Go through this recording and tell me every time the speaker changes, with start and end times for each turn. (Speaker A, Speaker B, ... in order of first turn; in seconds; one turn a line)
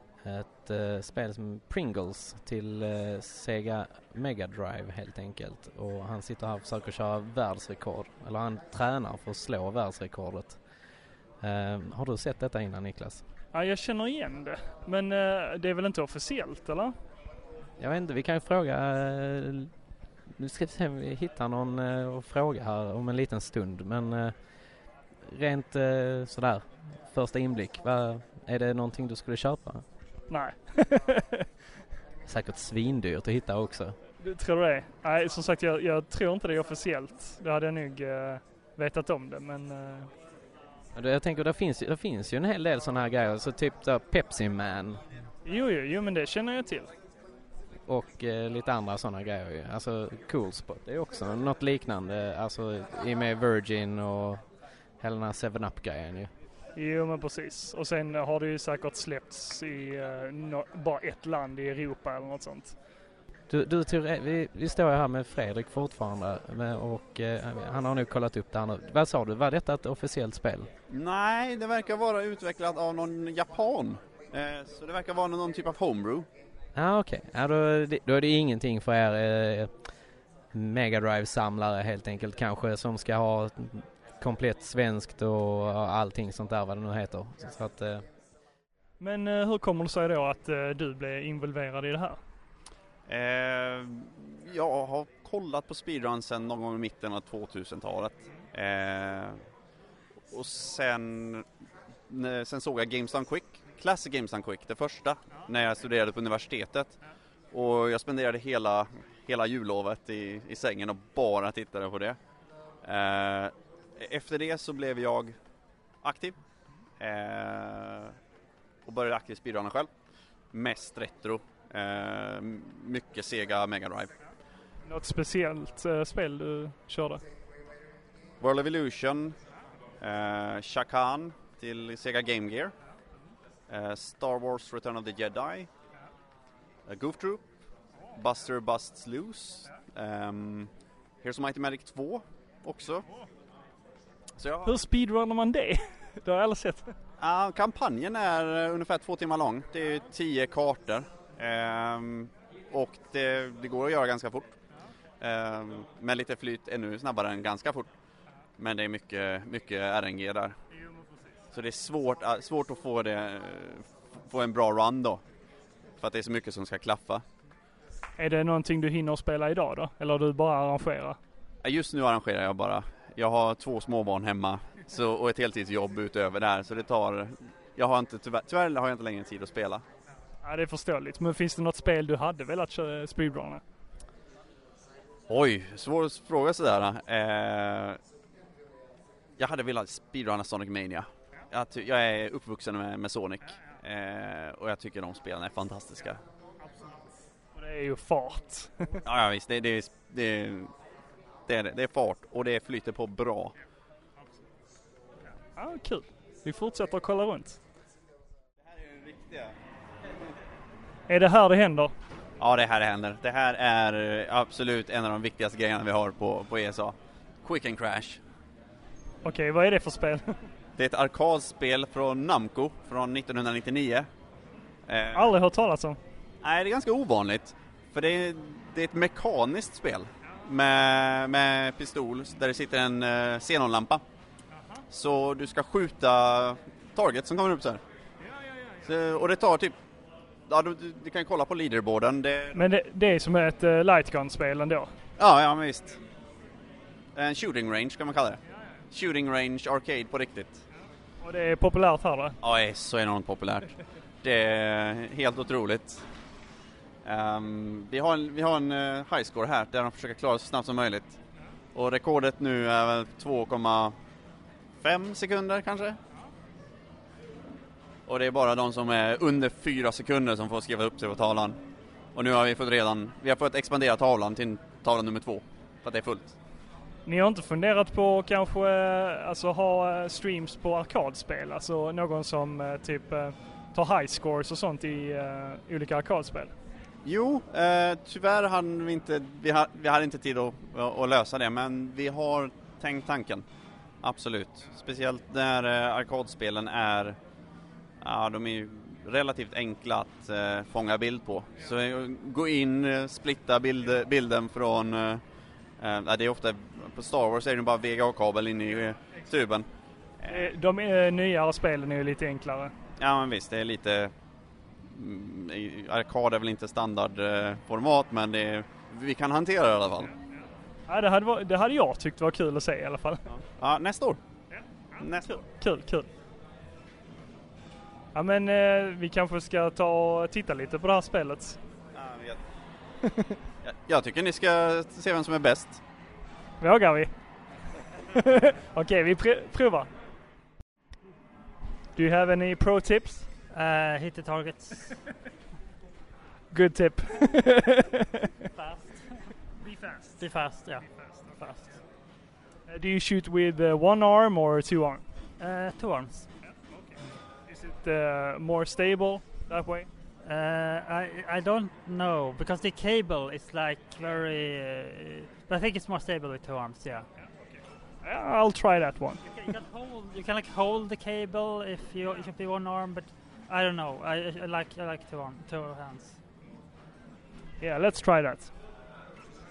Speaker A: 0.2-10.6
Speaker A: 11.4-13.2
Speaker B: 13.5-16.9
Speaker A: 17.8-19.7
Speaker A: 20.4-24.3
Speaker A: 25.3-29.9
Speaker B: 30.3-31.5
Speaker A: 32.3-34.0
Speaker B: 34.2-40.1
Speaker A: 41.0-45.0
Speaker B: 45.5-46.9
Speaker A: 47.9-54.4
Speaker A: 55.0-56.3
Speaker B: 56.8-62.8
Speaker A: 63.5-70.7
Speaker C: 70.9-76.3
Speaker A: 76.8-79.7
Speaker A: 80.5-88.0
Speaker B: 89.0-92.2
Speaker C: 93.1-99.4
Speaker C: 100.3-101.5
Speaker C: 102.1-107.0
Speaker C: 107.5-112.2
Speaker C: 112.8-115.4
Speaker C: 116.0-116.4
Speaker C: 117.0-118.1
Speaker C: 118.9-119.9
Speaker C: 120.5-124.1
Speaker B: 124.8-127.2
Speaker C: 128.4-129.4
Speaker C: 130.0-132.7
Speaker C: 133.7-135.7
Speaker C: 136.9-137.4
Speaker C: 138.2-140.7
Speaker C: 141.2-143.1
Speaker C: 144.4-144.8
Speaker B: 144.7-147.0
Speaker C: 147.2-154.5
Speaker C: 155.2-157.9
Speaker C: 158.6-160.6
Speaker C: 161.5-165.2
Speaker C: 166.0-167.2
Speaker B: 168.2-171.2
Speaker C: 171.6-179.8
Speaker B: 180.4-183.6
Speaker C: 185.3-188.0
Speaker C: 189.4-196.2
Speaker B: 197.6-199.0
Speaker C: 199.1-200.7
Speaker C: 201.5-203.5
Speaker B: 205.6-207.6
Speaker C: 208.7-209.5
Speaker B: 211.1-211.9
Speaker C: 212.4-218.2
Speaker B: 219.2-220.4
Speaker C: 220.8-224.1
Speaker C: 224.9-225.3
Speaker B: 225.1-226.0
Speaker C: 226.4-234.0
Speaker C: 234.9-237.8
Speaker C: 238.8-239.8
Speaker C: 240.5-242.6
Speaker B: 242.5-244.9
Speaker C: 245.2-246.0
Speaker C: 247.2-248.4
Speaker C: 248.9-250.6
Speaker B: 251.2-252.4
Speaker C: 252.4-253.7
Speaker C: 254.2-256.0
Speaker C: 257.1-261.2
Speaker C: 261.8-263.9
Speaker C: 264.8-266.0
Speaker C: 268.1-271.6
Speaker C: 272.1-276.4
Speaker B: 277.1-286.5
Speaker C: 287.0-293.4
Speaker C: 294.0-297.2
Speaker C: 298.0-305.2
Speaker C: 305.8-309.7
Speaker C: 310.2-310.5
Speaker B: 310.3-312.7
Speaker C: 313.0-314.1
Speaker C: 314.9-320.1
Speaker B: 320.9-323.2
Speaker C: 323.3-324.2
Speaker B: 324.5-326.1
Speaker C: 325.0-325.4
Speaker B: 328.1-331.6
Speaker C: 331.9-332.4
Speaker C: 333.6-335.8
Speaker B: 336.6-337.1
Speaker B: 338.1-339.9
Speaker B: 341.9-343.3
Speaker D: 343.5-344.9
Speaker B: 346.5-348.3
Speaker D: 348.6-351.7
Speaker B: 352.7-355.0
Speaker D: 355.4-356.3
Speaker B: 357.5-359.9
Speaker D: 360.2-367.1
Speaker B: 368.0-369.2
Speaker D: 369.3-376.2
Speaker B: 377.6-378.5